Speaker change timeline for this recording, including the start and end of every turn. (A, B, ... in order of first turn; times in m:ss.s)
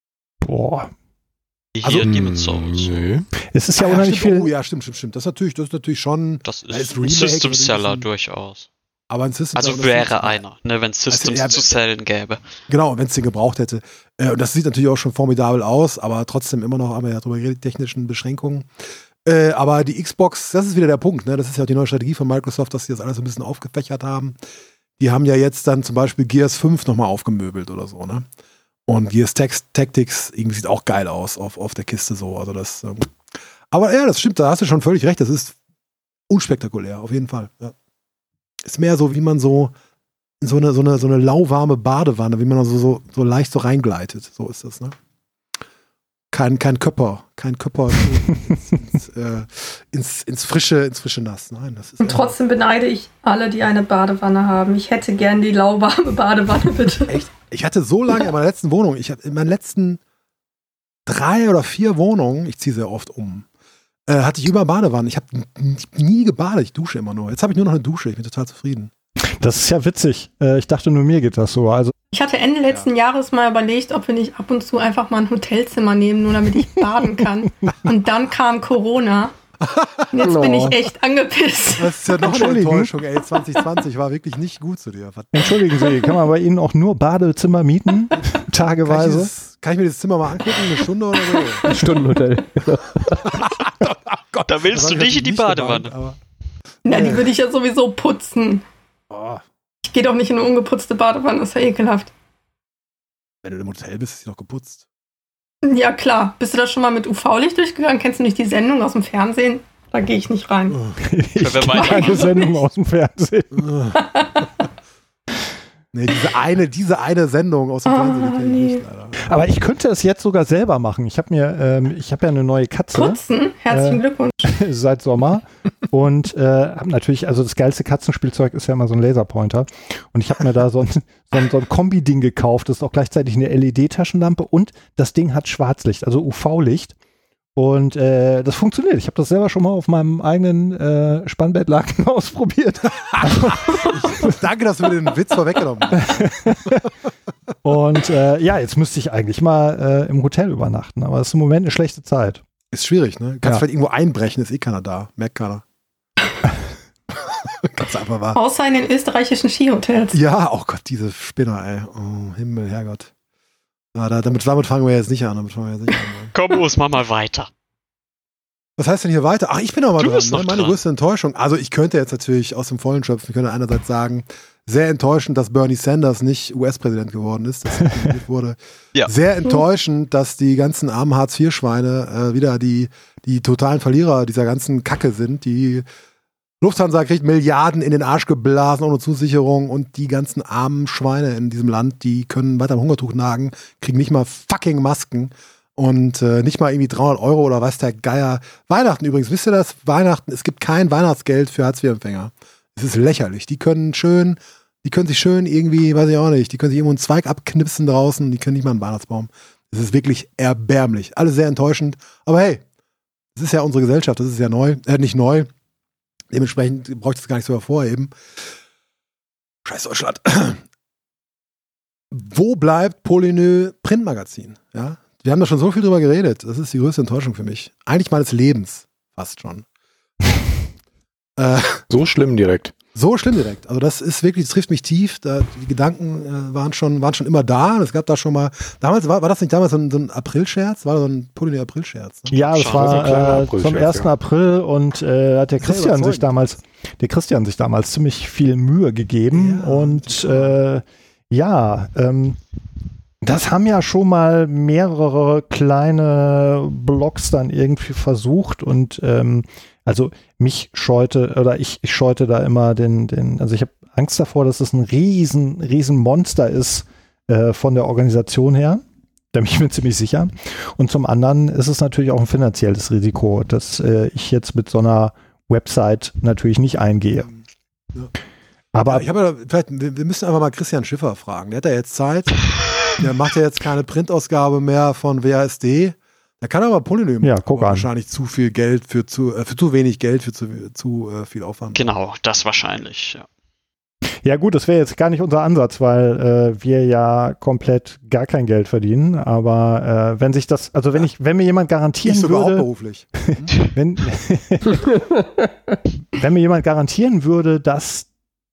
0:00.4-0:00.9 A
0:01.8-0:02.9 B
0:01.8-0:03.3 C
0:03.5-0:04.5 A
0:03.8-0:08.1 D
0:06.4-0:08.7 B
0:09.1-0:10.4 D
0:09.6-0:12.4 B
0:11.1-0:11.8 D
0:12.7-0:18.7 D
0:19.2-0:24.4 D
0:25.0-0:28.3 D
0:28.9-0:33.1 D
0:33.7-0:35.6 D
0:36.3-0:37.7 D
0:38.6-0:39.7 D
0:40.4-0:45.0 D
0:46.3-0:52.4 D
0:52.0-0:57.2 E
0:57.1-1:00.0 D
1:01.1-1:03.5 D
1:04.1-1:08.9 D
1:09.4-1:11.9 A
1:12.1-1:19.3 E
1:19.6-1:20.3 D
1:20.1-1:22.0 E
1:20.2-1:20.8 F
1:21.8-1:25.9 D
1:22.2-1:22.9 A
1:25.3-1:29.3 A
1:28.8-1:31.7 D
1:31.3-1:31.7 E
1:31.6-1:33.5 F
1:33.2-1:36.2 D
1:34.5-1:35.9 B
1:36.8-1:37.3 D
1:36.8-1:38.6 E
1:39.1-1:39.4 D
1:39.8-1:42.1 E
1:43.4-1:44.8 D
1:45.6-1:50.8 E
1:50.7-1:51.0 D
1:51.0-1:53.7 A
1:51.4-1:52.5 B
1:51.7-1:52.5 E
1:53.5-1:54.0 D
1:54.0-1:54.5 E
1:55.9-1:59.2 D
1:57.9-1:58.8 E
1:59.2-2:17.0 A
2:03.0-2:04.5 E
2:17.6-2:24.3 A
2:23.2-2:26.2 D
2:26.0-2:26.9 A
2:27.6-2:32.4 A
2:32.7-2:35.6 D
2:37.2-2:38.4 D
2:38.3-2:40.2 E
2:40.1-2:43.1 D
2:43.9-2:46.3 D
2:46.3-2:47.5 B
2:48.8-3:05.8 D
2:50.0-2:50.8 B
3:06.6-3:32.6 D
3:33.4-3:35.5 D
3:36.3-3:38.1 D
3:39.6-3:40.6 D
3:42.1-3:49.6 D
3:51.4-3:51.8 D
3:51.9-3:52.7 C
3:53.0-4:02.3 D
4:02.3-4:12.4 A
4:02.4-4:03.4 B
4:02.7-4:04.1 C
4:05.6-4:06.4 D
4:09.3-4:10.6 D
4:13.2-4:28.8 A
4:29.3-4:37.3 A
4:38.7-4:39.1 A
4:38.9-4:42.4 D
4:42.9-4:51.9 D
4:47.2-4:47.9 A
4:51.7-4:53.3 B
4:54.2-5:02.7 A
5:02.0-5:03.5 D
5:03.6-5:04.8 A
5:06.2-5:08.1 A